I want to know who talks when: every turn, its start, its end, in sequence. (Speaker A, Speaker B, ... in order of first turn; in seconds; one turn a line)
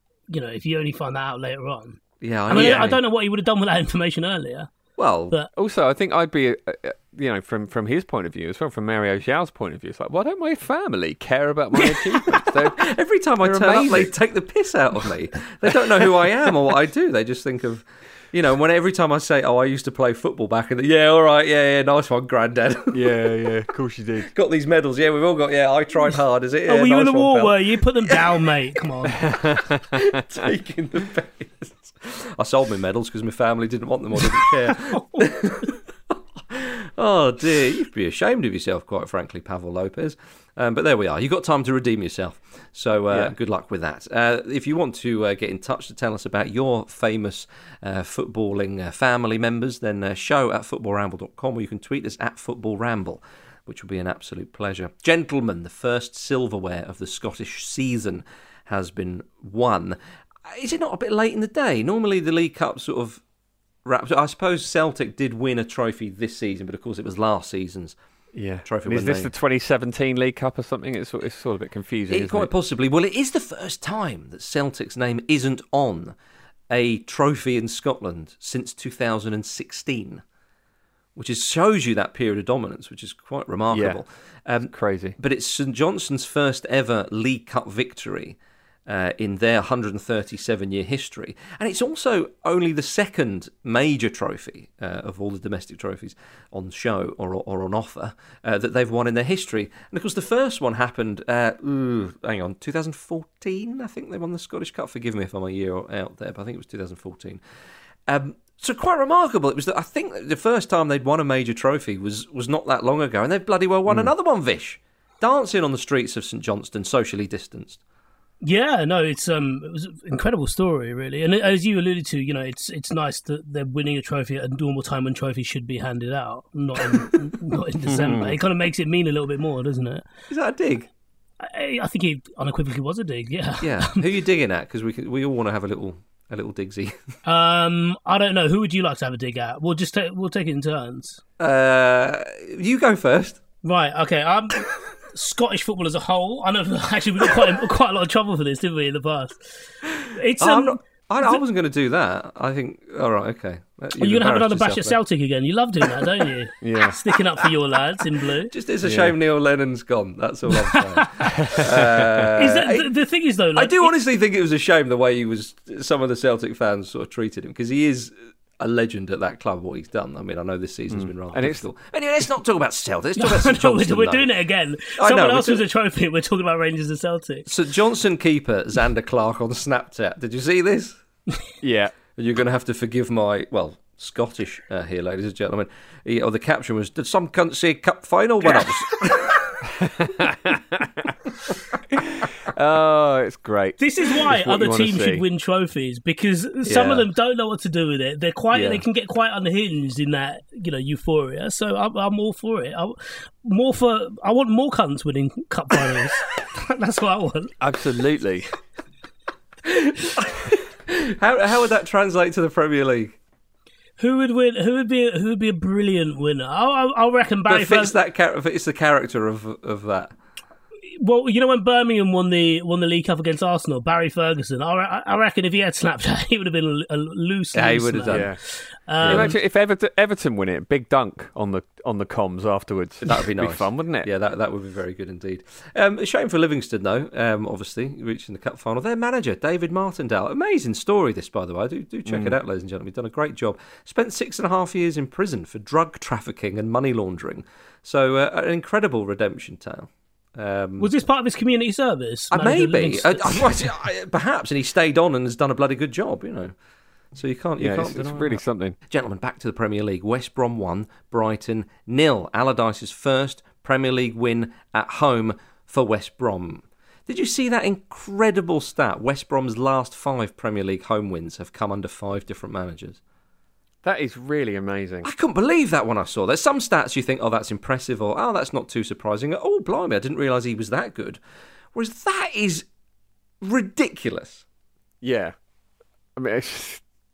Speaker A: 0.3-4.7
Speaker B: 2.2-3.0
Speaker C: 2.5-2.9
Speaker B: 5.0-5.4
Speaker C: 5.6-12.9
Speaker B: 12.8-23.1
Speaker C: 13.4-14.1
Speaker C: 22.9-24.3
Speaker B: 24.3-28.6
Speaker A: 26.7-29.3
Speaker C: 29.2-30.1
Speaker B: 29.9-35.8
Speaker A: 35.0-35.4
Speaker B: 36.5-63.2
Speaker B: 63.9-67.9
Speaker C: 68.3-72.5
Speaker B: 68.6-69.3
Speaker B: 72.1-76.1
Speaker B: 76.7-80.2
Speaker B: 81.2-107.4
Speaker C: 83.7-84.0
Speaker C: 84.7-85.2
Speaker B: 108.1-117.8
Speaker A: 118.4-130.1
Speaker C: 127.9-128.4
Speaker B: 130.3-130.9
Speaker A: 131.4-134.1
Speaker B: 133.6-137.1
Speaker A: 137.2-141.2
Speaker B: 141.4-143.4
Speaker A: 143.6-151.4
Speaker B: 150.4-154.9
Speaker A: 154.0-158.5
Speaker C: 156.6-157.0
Speaker B: 158.5-162.9
Speaker C: 158.8-159.1
Speaker A: 160.7-161.2
Speaker C: 161.3-162.3
Speaker A: 162.4-164.0
Speaker B: 163.6-174.3
Speaker C: 170.9-171.6
Speaker A: 173.2-177.5
Speaker B: 175.0-175.6
Speaker B: 177.4-181.0
Speaker C: 181.6-181.9
Speaker B: 182.2-189.6
Speaker C: 189.8-191.1
Speaker C: 191.9-195.2
Speaker A: 193.8-207.6
Speaker B: 196.6-197.1
Speaker B: 198.5-198.8
Speaker C: 207.6-208.5
Speaker B: 209.7-213.2
Speaker A: 214.0-217.9
Speaker B: 217.4-220.1
Speaker A: 220.9-229.4
Speaker B: 227.5-228.3
Speaker C: 228.1-228.4
Speaker B: 229.0-229.4
Speaker C: 229.0-234.1
Speaker B: 233.0-250.9
Speaker C: 242.1-242.4
Speaker A: 250.8-253.5
Speaker B: 252.3-256.5
Speaker B: 257.1-273.0
Speaker C: 257.6-258.7
Speaker C: 273.8-275.1
Speaker B: 275.0-281.2
Speaker B: 281.7-282.6
Speaker B: 283.4-284.4
Speaker C: 285.0-285.4
Speaker C: 286.2-286.8